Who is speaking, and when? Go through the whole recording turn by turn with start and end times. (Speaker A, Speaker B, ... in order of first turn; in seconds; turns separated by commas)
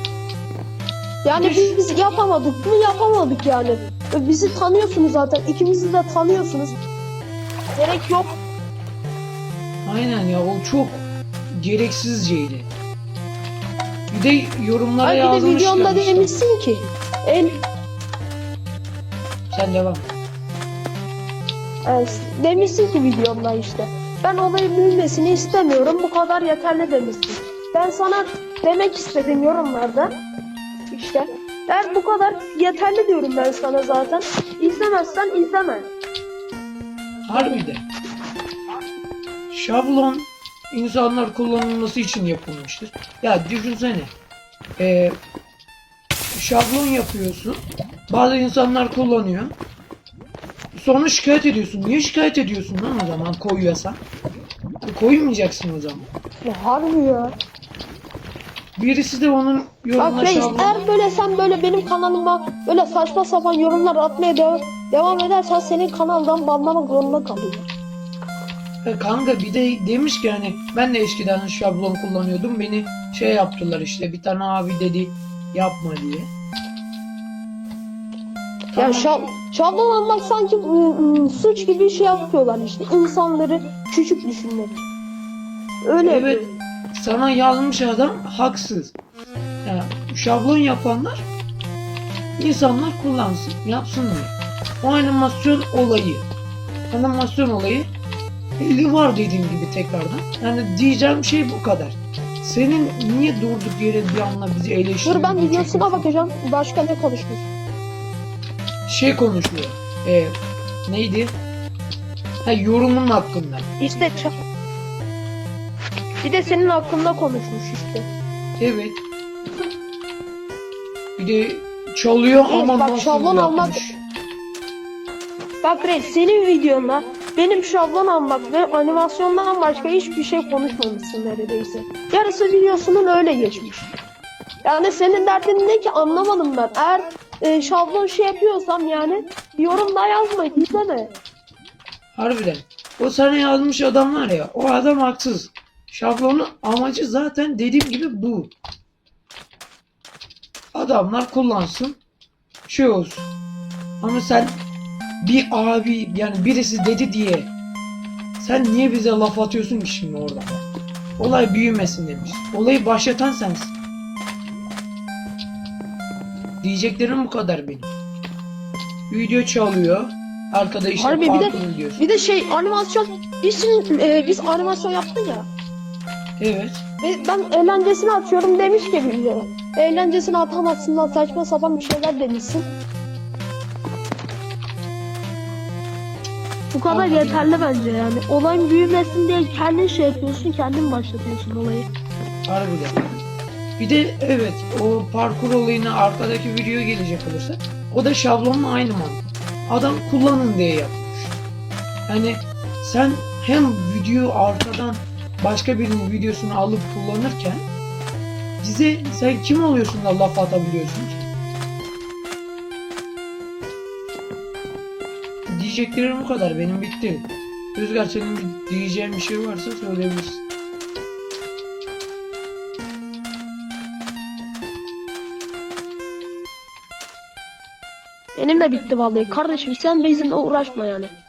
Speaker A: 1.2-6.8, Speaker B: 1.3-1.8, Speaker A: 7.7-8.3, Speaker B: 9.8-12.7, Speaker B: 14.1-16.4, Speaker A: 15.0-17.6, Speaker B: 19.5-20.1, Speaker A: 21.9-30.2, Speaker A: 30.9-35.9, Speaker B: 37.3-37.9, Speaker A: 37.3-37.7, Speaker B: 39.5-44.1, Speaker B: 44.8-45.2, Speaker B: 46.3-49.5, Speaker B: 50.7-54.0, Speaker B: 54.8-56.1, Speaker A: 56.5-57.4, Speaker B: 58.8-60.8, Speaker A: 60.0-67.7, Speaker B: 68.8-76.3, Speaker B: 78.8-79.2, Speaker A: 78.8-84.8, Speaker A: 85.9-86.5, Speaker B: 86.0-89.0, Speaker B: 89.6-91.3, Speaker B: 92.4-96.3, Speaker B: 96.9-97.9, Speaker B: 98.6-106.1, Speaker A: 105.0-107.4, Speaker B: 108.9-110.4, Speaker B: 110.9-111.3, Speaker B: 112.4-113.7, Speaker A: 113.8-114.3, Speaker A: 116.2-118.1, Speaker B: 118.6-119.0, Speaker B: 121.2-124.0, Speaker A: 122.5-123.8, Speaker A: 125.6-133.9, Speaker A: 134.6-141.2, Speaker B: 142.1-148.5, Speaker B: 150.7-152.0, Speaker B: 152.7-153.3, Speaker B: 154.0-154.6, Speaker B: 155.2-157.5, Speaker B: 158.4-160.6, Speaker B: 161.2-163.7, Speaker B: 166.6-167.9, Speaker B: 169.1-172.0, Speaker A: 171.0-175.5, Speaker B: 176.4-176.8, Speaker A: 177.0-182.7, Speaker A: 186.7-191.9, Speaker B: 186.9-187.6, Speaker B: 192.5-193.1, Speaker B: 193.8-201.4, Speaker B: 202.1-207.6, Speaker B: 208.6-211.3, Speaker B: 215.5-220.4, Speaker A: 228.4-231.1